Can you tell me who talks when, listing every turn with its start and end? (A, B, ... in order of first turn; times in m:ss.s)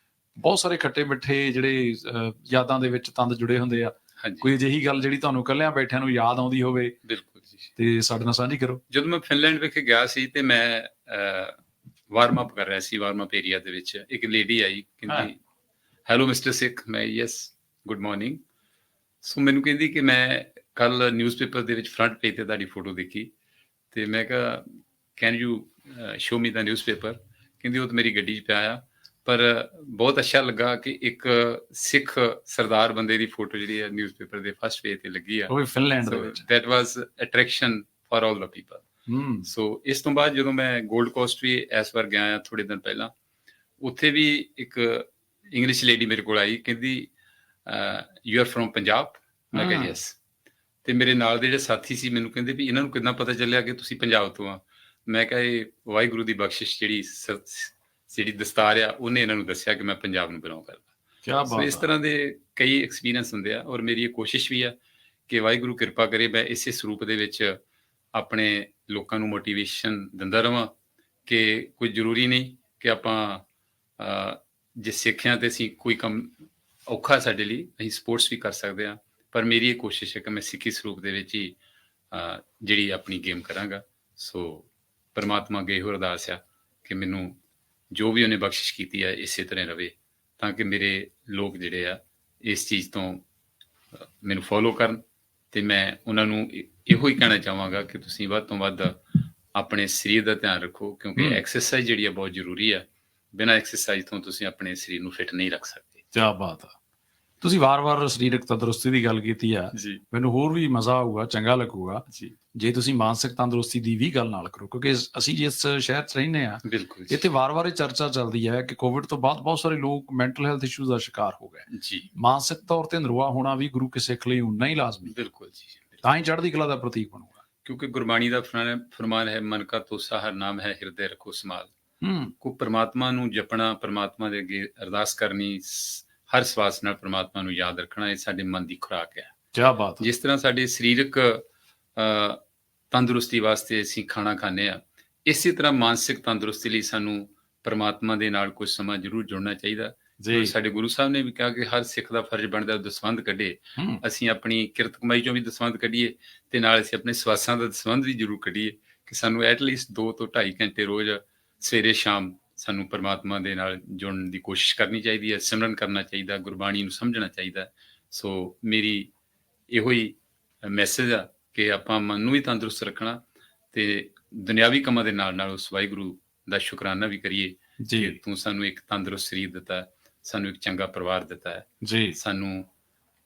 0:00.4-0:07.0 A
0:04.2-0:04.5 B
0:07.0-0:07.7 B
0:07.8-0:08.8 A
0:08.9-0:15.4 B
0:16.1-0:18.4 B
0:19.2-0:23.3 B
0:23.9-0:35.5 B
0:35.5-0:36.4 A
0:36.1-0:38.8 B
0:39.1-0:39.5 A
0:39.4-0:43.1 B
0:43.8-0:47.1 B
0:47.7-0:50.2 B
0:49.6-0:50.0 A
0:50.8-1:00.9 B
1:01.2-1:01.9 A
1:01.5-1:04.8 B
1:05.3-1:07.6 B
1:08.1-1:10.7 B
1:11.3-1:13.4 B
1:14.0-1:16.3 B
1:16.9-1:21.6 B
1:22.1-1:27.4 B
1:27.9-1:33.2 B
1:34.2-1:35.0 B
1:35.5-1:46.0 B
1:46.1-1:46.8 A
1:47.4-2:05.1 A
1:49.7-1:50.0 B
1:52.1-1:52.4 B
1:56.6-1:57.2 B
2:01.7-2:02.1 B
2:05.1-2:06.0 B
2:06.0-2:07.4 A
2:07.6-2:11.7 B
2:12.0-2:12.3 A
2:12.4-2:19.3 B
2:19.5-2:20.1 A
2:20.0-2:21.4 B
2:22.0-2:22.4 B
2:22.9-2:49.1 B
2:30.2-2:30.5 A
2:33.8-2:34.0 A
2:49.7-2:53.2 B
2:53.7-3:02.7 B
2:57.8-2:58.2 A
3:01.8-3:02.2 A